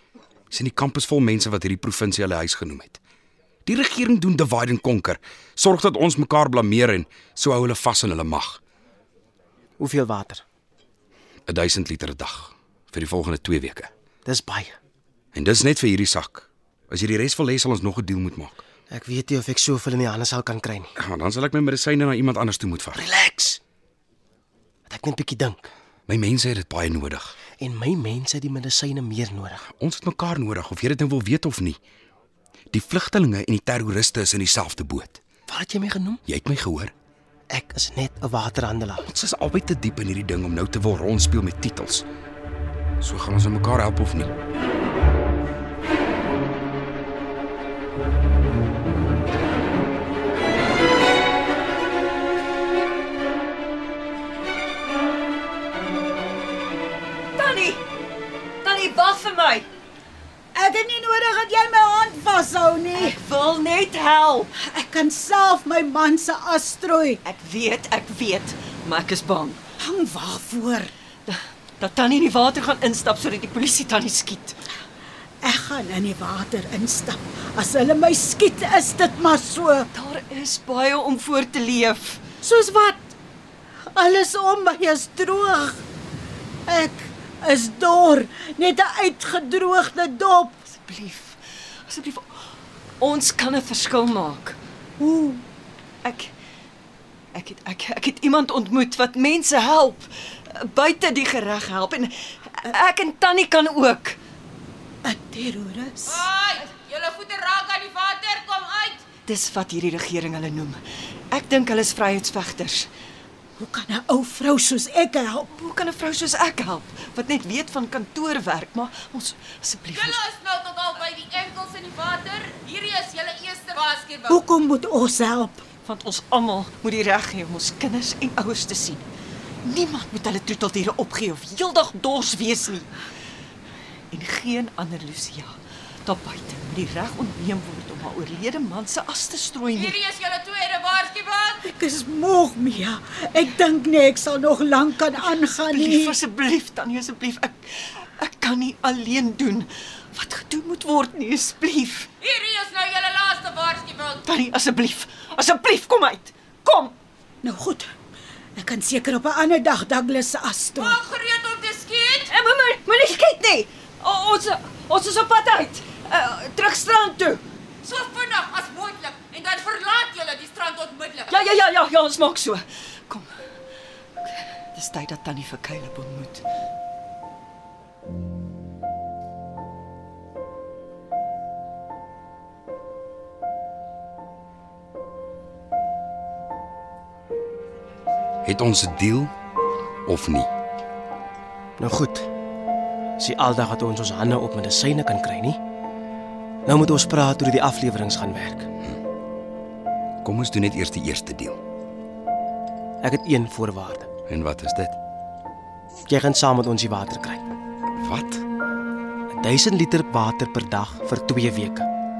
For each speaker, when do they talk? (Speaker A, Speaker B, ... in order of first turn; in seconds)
Speaker A: 0.5-3.0, 3.7-8.6, 11.5-13.9, 15.3-18.6, 21.0-23.0, 26.1-27.3, 29.7-31.8, 32.7-35.2, 36.3-36.9, 39.0-42.0, 43.0-44.3, 188.4-189.3, 190.1-190.5, 200.2-201.6, 204.3-204.9, 208.0-208.4
Speaker B: 9.8-10.4, 14.2-14.8, 18.9-20.9, 22.9-23.6, 24.9-25.7, 27.6-29.6, 35.5-36.2, 37.5-39.1, 191.8-192.3, 193.2-195.6, 196.7-198.7, 203.0-204.1, 206.1-207.4, 209.4-211.9
Speaker C: 57.4-57.8, 58.6-59.7, 62.9-64.5, 67.2-69.6, 71.3-74.6, 79.9-82.2, 90.8-92.3, 93.0-94.6, 96.0-96.3, 97.3-104.2, 109.2-110.8, 111.3-112.9, 115.5-120.2, 125.8-129.1, 129.6-132.9, 134.1-140.0, 145.6-147.6, 148.2-152.1, 154.2-156.9, 162.3-167.4, 171.3-173.3, 174.7-176.4
Speaker D: 60.5-63.2, 64.6-67.2, 69.8-70.9, 75.4-79.9, 82.4-83.1, 83.9-85.8, 86.7-90.6, 95.0-95.4, 105.0-106.3, 113.6-115.5, 124.3-125.7, 141.6-146.2, 157.4-157.9, 158.6-161.0
Speaker E: 106.1-109.1, 119.9-124.4, 139.8-141.7, 152.2-154.3, 160.8-162.3, 167.8-171.6